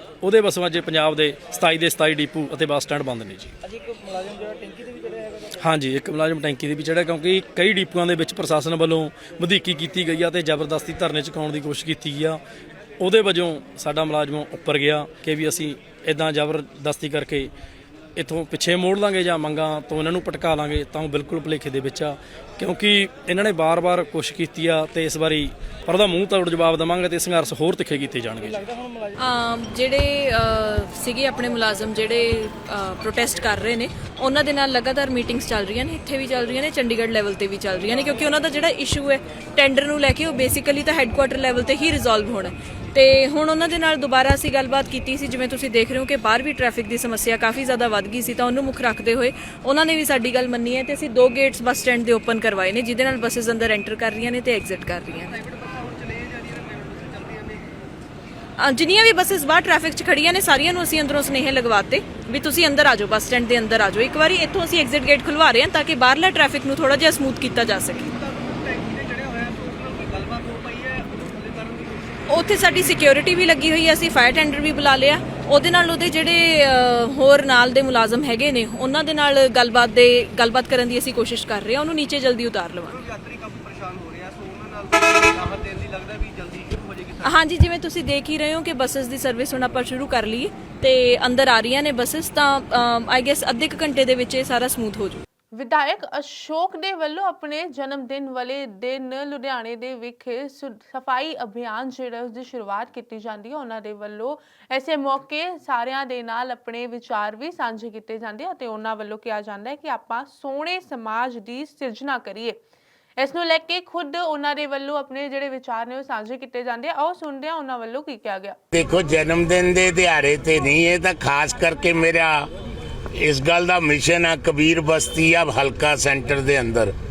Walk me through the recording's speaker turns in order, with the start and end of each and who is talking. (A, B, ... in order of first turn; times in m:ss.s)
0:00.2-0:03.5 A
0:05.6-0:12.4 A
0:13.0-0:17.5 A
0:18.2-0:28.6 A
0:29.2-0:55.4 B
0:55.3-0:57.6 C
0:58.6-1:08.2 B
1:08.2-1:12.0 C
1:12.3-1:23.0 B
1:23.0-1:27.2 C
1:27.2-1:35.2 B
1:35.6-1:52.6 D
1:53.2-1:58.6 D
1:58.7-2:02.5 E
2:03.1-2:06.9 E